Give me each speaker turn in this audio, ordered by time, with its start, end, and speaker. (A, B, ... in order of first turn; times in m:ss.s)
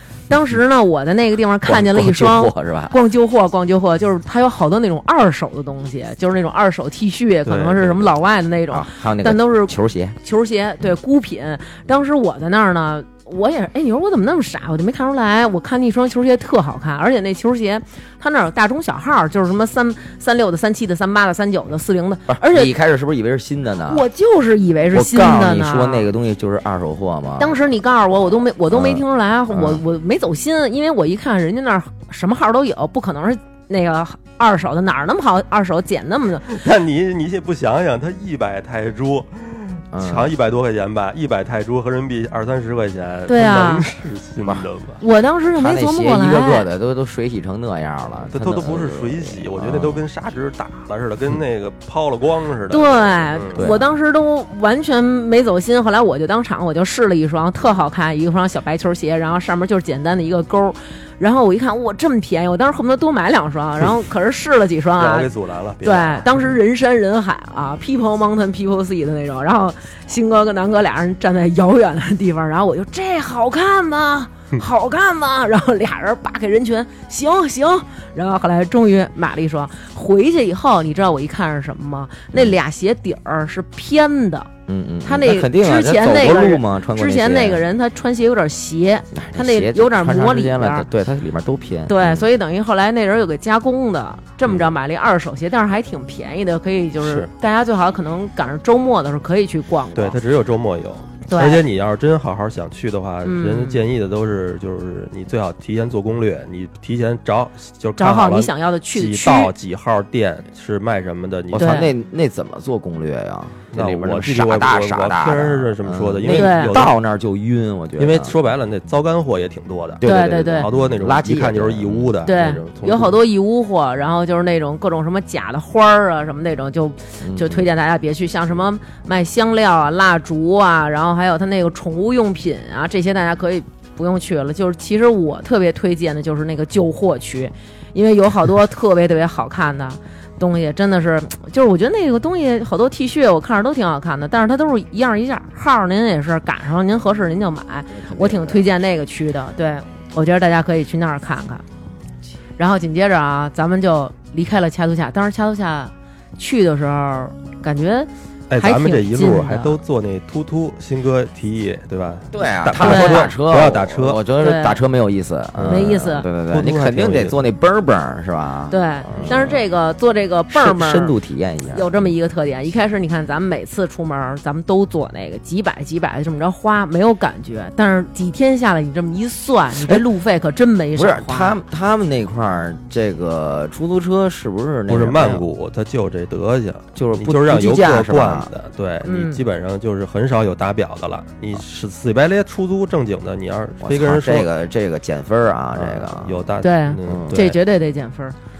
0:00.3-0:22.7 A
0:01.6-0:03.0 B
0:07.5-0:08.1 C
0:08.7-0:10.2 B
0:22.3-0:24.0 B
0:23.9-0:26.1 A
0:24.9-0:27.6 B
0:27.4-0:36.6 A
0:28.7-0:29.8 B
0:36.5-0:45.0 C
0:39.9-0:40.3 B
0:43.3-0:43.9 A
0:44.4-0:44.7 B
0:45.0-0:46.7 A
0:45.5-0:50.1 B
0:48.2-0:53.7 C
0:52.7-1:05.3 A
0:53.6-0:53.9 B
1:05.0-1:06.5 C
1:05.8-1:24.5 A
1:24.7-1:27.6 B
1:25.0-1:30.9 A
1:29.1-1:32.3 B
1:31.9-1:40.2 A
1:37.0-1:37.3 C
1:40.0-1:51.8 C
1:41.3-1:41.6 A
1:43.2-1:43.8 A
1:48.0-1:49.5 A
1:51.5-1:58.4 B
1:51.6-1:51.9 A
1:53.7-1:57.0 C
1:56.3-1:56.8 A
1:58.0-2:00.0 C
2:00.0-2:02.2 B
2:00.0-2:00.7 A
2:00.6-2:03.1 C
2:02.2-2:31.6 A
2:07.2-2:07.7 B
2:28.0-2:28.6 B
2:32.6-2:39.8 A
2:38.5-2:44.2 C
2:42.3-2:49.6 B
2:42.8-2:43.3 A
2:44.4-2:44.8 A
2:45.6-2:45.9 C
2:45.7-2:46.3 A
2:46.5-2:47.4 C
2:48.7-2:51.1 A
2:50.5-2:52.1 B
2:51.7-3:01.6 A
2:59.8-3:00.0 B
3:01.0-3:05.4 B
3:04.9-3:14.5 C
3:07.0-3:08.5 B
3:09.0-3:09.4 A
3:13.8-3:16.5 B
3:15.7-3:17.6 C
3:16.6-3:18.4 A
3:17.0-3:17.4 B